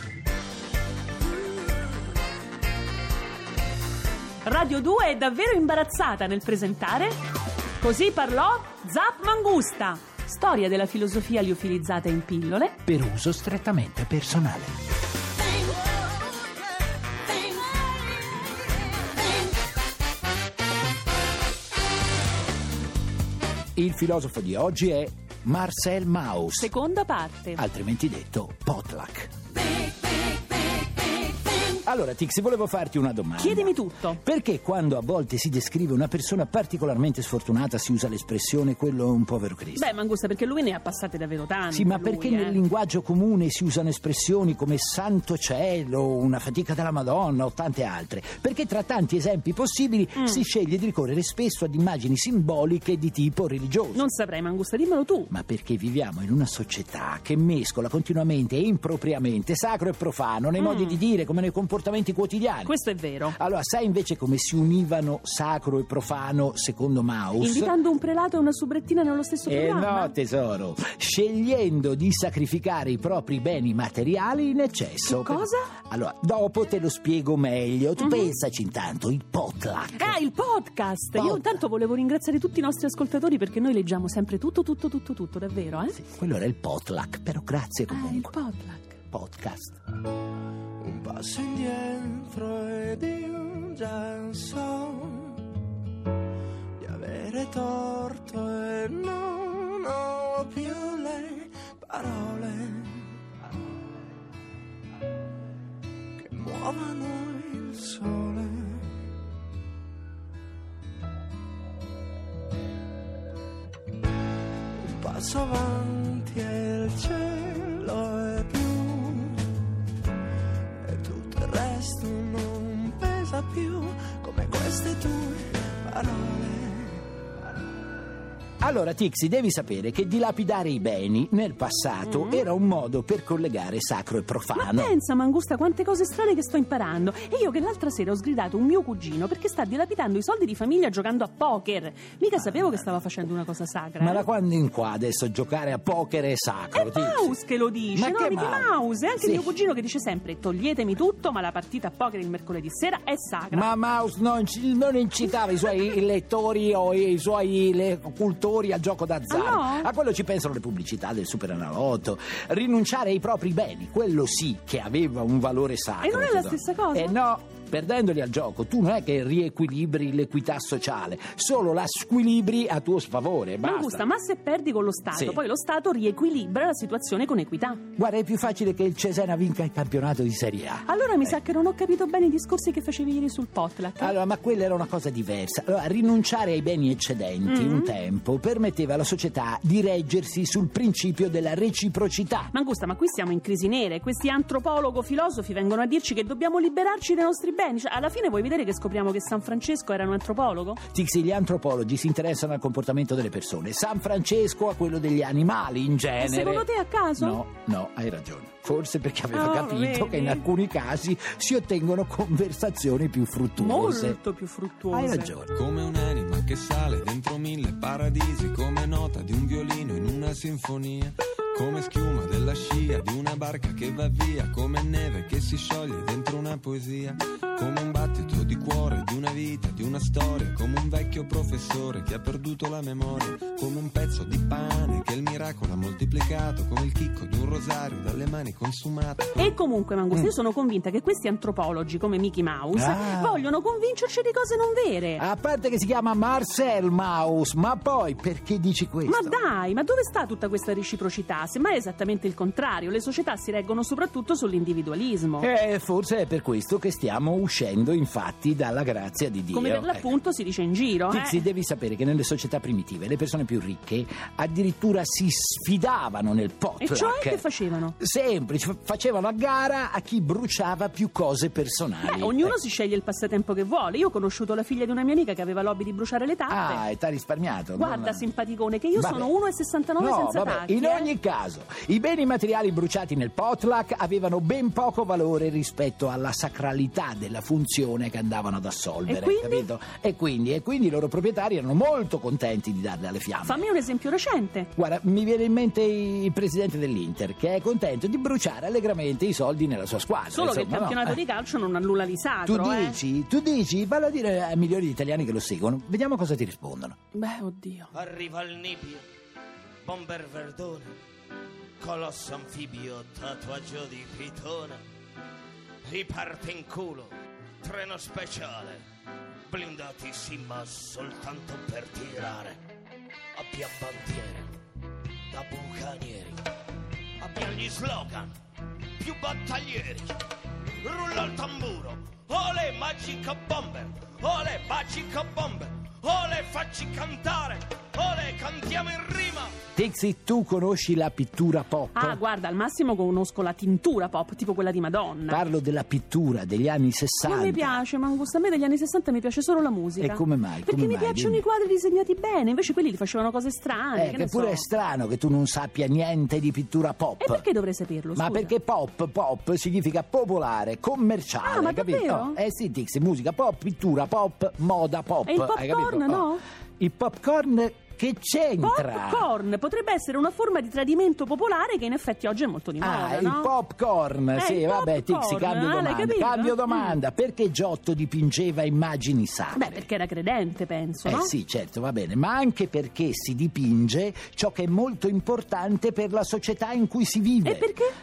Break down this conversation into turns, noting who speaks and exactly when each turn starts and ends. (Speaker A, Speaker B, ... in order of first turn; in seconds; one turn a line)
Speaker A: 4.4-7.2
Speaker A: 7.8-12.8
Speaker B: 12.9-14.8
Speaker B: 23.8-26.7
Speaker A: 26.6-27.6
Speaker B: 27.6-29.3
Speaker B: 31.8-39.9
Speaker A: 33.4-34.2
Speaker A: 39.8-42.6
Speaker B: 41.7-54.1
Speaker A: 50.2-50.4
Speaker A: 54.0-55.3
Speaker B: 55.3-62.7
Speaker A: 60.6-61.0
Speaker A: 62.6-63.4
Speaker B: 63.3-67.8
Speaker A: 67.4-70.1
Speaker B: 69.5-80.2
Speaker A: 75.1-75.7
Speaker A: 78.0-78.3
Speaker A: 80.0-86.0
Speaker B: 81.2-81.6
Speaker B: 86.0-88.3
Speaker A: 87.9-89.0
Speaker B: 89.1-89.8
Speaker C: 90.8-95.5
Speaker C: 96.8-103.2
Speaker C: 106.2-108.9
Speaker C: 114.8-119.5
Speaker C: 120.8-127.0
Speaker B: 128.6-135.0
Speaker A: 132.1-132.5
Speaker A: 134.6-144.3
Speaker B: 142.3-142.9
Speaker B: 144.0-147.4
Speaker A: 146.7-153.7
Speaker B: 147.9-149.5
Speaker B: 153.5-174.1
Speaker A: 159.3-159.9
Speaker A: 166.0-167.2
Speaker A: 173.6-177.8
Speaker B: 175.1-175.4
Speaker B: 178.0-181.4
Speaker A: 180.9-184.2
Speaker B: 184.0-192.5
Speaker A: 187.5-187.9
Speaker A: 192.5-200.8
Speaker B: 200.9-214.2
Speaker A: 206.2-207.4
Speaker A: 209.3-210.5
Speaker A: 213.6-215.3
Speaker B: 214.9-215.5
Speaker D: 215.5-239.5
Speaker A: 239.4-245.2
Speaker B: 242.7-243.4
Speaker B: 245.2-249.4
Speaker A: 249.1-255.5
Speaker B: 255.4-260.1
Speaker A: 259.5-261.4
Speaker B: 261.1-272.6
Speaker A: 266.8-268.0
Speaker A: 272.0-276.8
Speaker B: 276.5-278.2
Speaker A: 277.8-281.1
Speaker B: 278.9-279.3
Speaker B: 280.0-293.6
Speaker A: 289.1-289.7
Speaker A: 293.4-294.7
Speaker B: 294.8-301.2
Speaker A: 300.3-303.0
Speaker B: 302.5-307.0
Speaker A: 307.1-307.9
Speaker E: 307.9-309.1
Speaker E: 309.8-310.9
Speaker E: 311.8-314.8
Speaker E: 315.9-318.8
Speaker E: 319.5-322.6
Speaker E: 323.4-324.5
Speaker E: 325.3-326.4
Speaker E: 327.2-328.3
Speaker E: 329.0-330.2
Speaker E: 330.8-339.5
Speaker B: 339.8-342.2
Speaker A: 341.9-345.4
Speaker B: 345.3-347.8
Speaker A: 347.2-354.6
Speaker B: 350.0-351.4
Speaker B: 353.9-357.5
Speaker A: 357.2-358.5
Speaker B: 358.2-369.3
Speaker A: 361.4-362.4
Speaker A: 365.3-366.4
Speaker A: 368.6-373.5
Speaker B: 372.8-379.9
Speaker A: 374.4-377.0
Speaker A: 379.5-381.3
Speaker B: 381.1-387.8
Speaker A: 387.4-387.9